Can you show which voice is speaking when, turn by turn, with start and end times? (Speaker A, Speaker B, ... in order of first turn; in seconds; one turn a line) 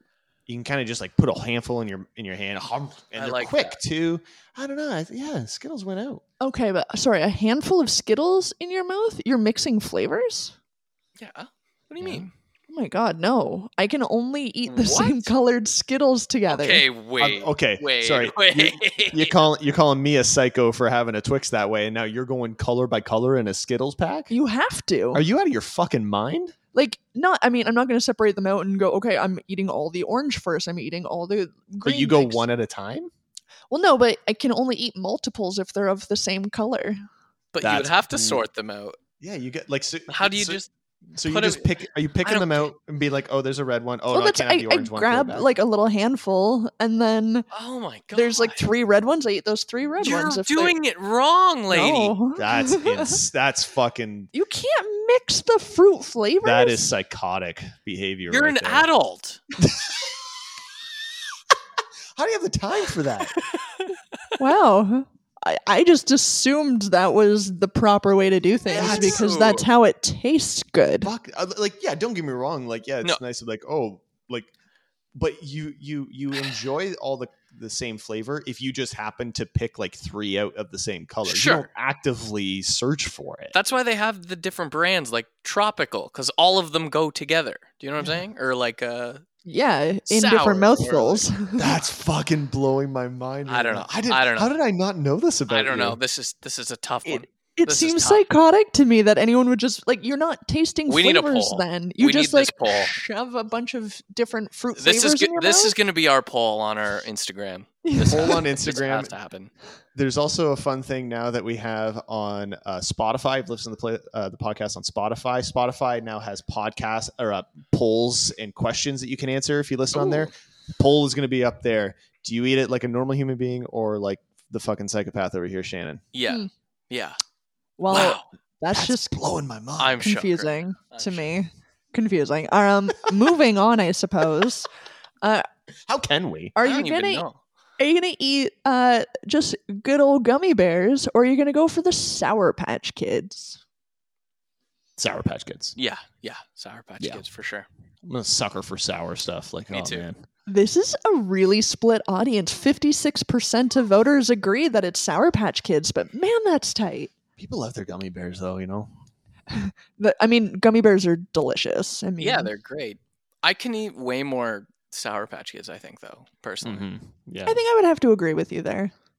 Speaker A: 0.5-6.2
Speaker B: 3.1-3.8
Speaker C: 6.4-10.5
Speaker B: 11.2-12.3
Speaker A: 12.0-12.3
Speaker C: 12.7-16.9
Speaker B: 14.7-15.3
Speaker B: 16.5-19.4
Speaker A: 17.2-24.3
Speaker C: 24.3-25.2
Speaker A: 25.1-26.6
Speaker C: 26.7-32.4
Speaker A: 31.8-33.1
Speaker C: 33.7-37.0
Speaker B: 37.5-39.0
Speaker A: 37.6-38.5
Speaker A: 39.2-45.5
Speaker B: 40.1-40.7
Speaker B: 41.2-41.7
Speaker B: 42.2-42.7
Speaker C: 44.1-47.5
Speaker B: 47.5-48.6
Speaker C: 48.1-50.8
Speaker B: 50.0-52.2
Speaker C: 51.7-53.2
Speaker A: 52.4-54.3
Speaker C: 54.3-56.8
Speaker A: 56.4-58.9
Speaker B: 58.3-59.4
Speaker A: 59.6-59.9
Speaker A: 62.1-63.3
Speaker B: 63.5-63.9
Speaker C: 64.4-71.1
Speaker A: 68.7-69.4
Speaker B: 68.7-69.7
Speaker A: 71.0-74.5
Speaker A: 75.1-83.5
Speaker B: 81.2-81.7
Speaker B: 83.5-89.2
Speaker C: 89.4-91.7
Speaker B: 90.1-91.2
Speaker A: 91.6-96.0
Speaker B: 93.5-94.5
Speaker B: 95.5-98.2
Speaker C: 97.0-105.8
Speaker B: 100.9-103.0
Speaker B: 104.7-109.5
Speaker C: 107.8-108.4
Speaker A: 108.1-109.1
Speaker A: 109.9-126.0
Speaker B: 119.9-120.2
Speaker B: 126.1-127.2
Speaker C: 127.8-129.2
Speaker B: 127.9-128.2
Speaker A: 128.7-130.0
Speaker B: 129.8-131.3
Speaker C: 130.0-134.7
Speaker C: 135.2-135.5
Speaker A: 135.9-136.5
Speaker C: 136.5-137.2
Speaker B: 136.6-137.4
Speaker C: 137.8-143.6
Speaker A: 145.0-145.7
Speaker B: 145.8-147.7
Speaker A: 147.0-147.2
Speaker A: 148.0-150.2
Speaker B: 149.7-150.1
Speaker C: 150.5-157.1
Speaker A: 157.4-158.9
Speaker C: 159.5-162.5
Speaker B: 162.2-166.9
Speaker A: 166.6-167.6
Speaker C: 167.4-168.9